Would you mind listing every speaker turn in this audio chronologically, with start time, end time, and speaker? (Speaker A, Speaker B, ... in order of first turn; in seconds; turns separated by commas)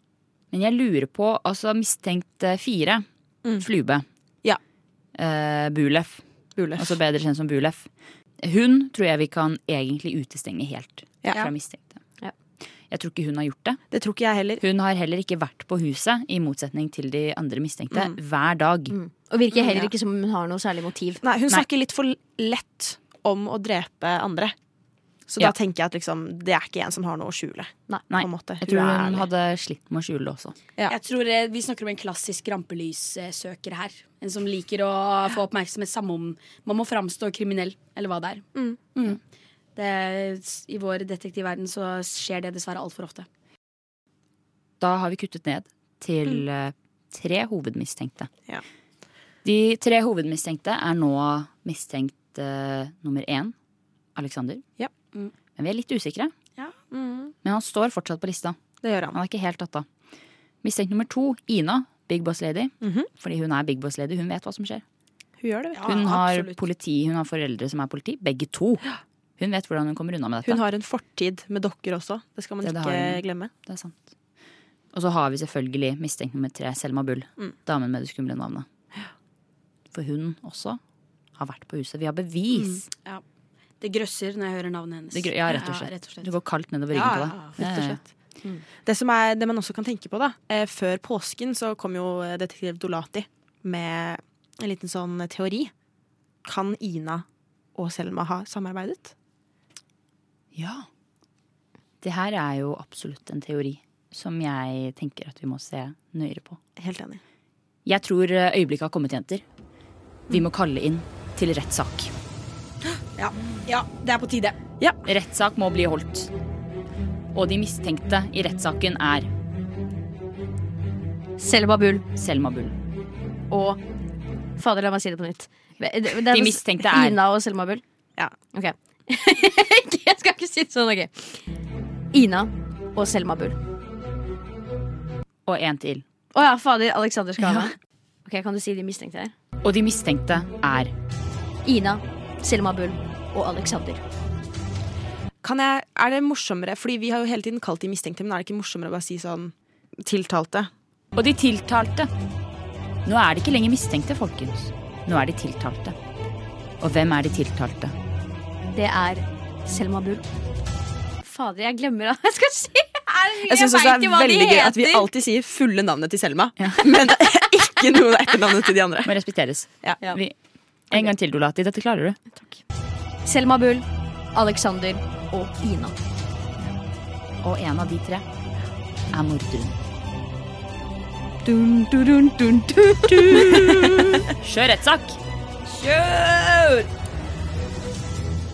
Speaker A: 0.5-3.0, Speaker A: 3.6-4.0, Speaker A: 5.2-6.2, Speaker B: 6.5-7.0, Speaker A: 6.8-7.9, Speaker A: 8.4-12.0, Speaker A: 12.9-13.8, Speaker B: 13.9-14.6, Speaker A: 14.6-18.9, Speaker C: 18.9-21.2, Speaker B: 21.2-24.5, Speaker B: 25.3-29.3, Speaker A: 28.1-30.5, Speaker D: 30.9-39.2, Speaker D: 39.8-43.3, Speaker A: 44.8-48.3, Speaker A: 49.4-53.5, Speaker A: 54.1-54.6, Speaker A: 55.5-56.3, Speaker B: 56.9-57.3, Speaker A: 57.4-58.5, Speaker B: 58.8-59.2, Speaker A: 59.1-59.9, Speaker A: 60.6-64.8, Speaker B: 62.8-63.1, Speaker B: 65.4-66.1, Speaker D: 65.7-66.6, Speaker A: 65.8-68.8, Speaker A: 69.4-70.6, Speaker B: 70.4-73.5, Speaker A: 72.6-74.1, Speaker A: 74.9-78.7, Speaker A: 79.9-80.8, Speaker A: 81.4-82.8, Speaker D: 83.8-85.8, Speaker A: 85.1-88.0, Speaker B: 86.9-88.1, Speaker B: 88.8-95.7, Speaker B: 96.4-97.2, Speaker B: 97.8-99.1, Speaker A: 100.5-100.9, Speaker A: 102.0-106.6, Speaker B: 106.8-107.2, Speaker A: 107.8-109.4, Speaker A: 110.3-112.1, Speaker D: 113.2-114.6, Speaker A: 115.0-116.3, Speaker A: 117.3-119.3, Speaker C: 121.4-122.0, Speaker A: 122.2-122.7, Speaker C: 123.5-123.8, Speaker C: 124.6-127.8, Speaker A: 126.3-127.2, Speaker C: 128.4-131.4, Speaker C: 132.1-133.6, Speaker A: 135.4-136.0, Speaker C: 136.3-137.7, Speaker A: 137.4-137.7, Speaker C: 138.2-139.3, Speaker A: 139.6-140.9, Speaker C: 141.6-144.0, Speaker B: 145.4-150.7, Speaker A: 151.1-152.1, Speaker A: 153.0-155.9, Speaker A: 156.8-157.9, Speaker C: 158.7-160.2, Speaker C: 161.2-165.1, Speaker B: 163.3-169.1, Speaker A: 169.0-170.3, Speaker A: 170.9-172.2, Speaker C: 173.2-176.0, Speaker A: 177.4-178.2, Speaker A: 179.1-179.8, Speaker C: 181.4-184.2, Speaker A: 183.3-185.2, Speaker D: 185.9-186.7